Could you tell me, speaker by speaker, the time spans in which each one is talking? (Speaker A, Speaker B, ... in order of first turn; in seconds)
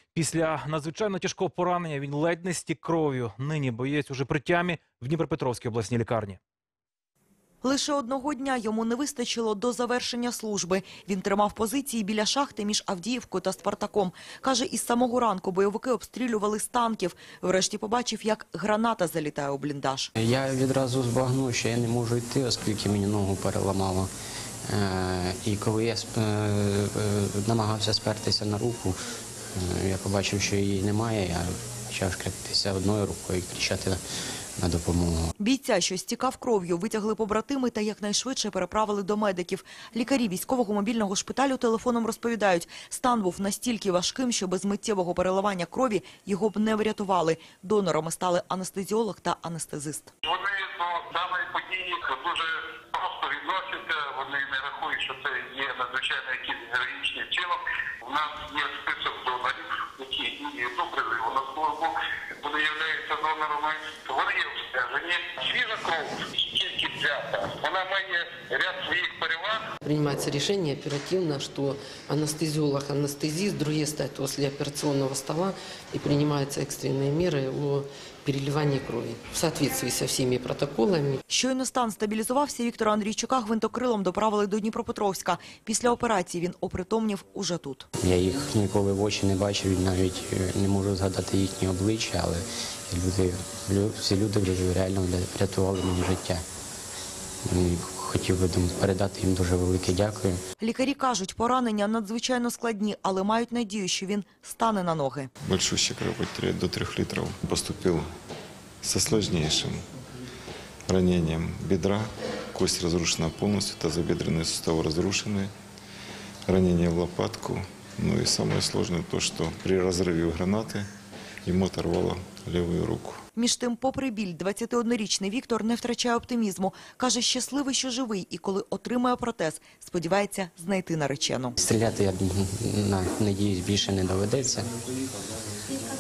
Speaker A: 0.1-6.4
Speaker B: 7.6-20.1, 35.4-50.1, 81.3-87.9, 100.6-105.3, 123.4-131.6
Speaker C: 20.2-24.1, 24.7-29.0, 29.5-34.0, 34.6-35.3, 88.0-96.4, 97.5-100.4, 131.6-134.7
Speaker D: 50.2-69.7
Speaker E: 69.8-81.2
Speaker F: 105.4-108.1, 108.8-109.8, 110.9-115.5, 116.5-120.9, 121.5-123.2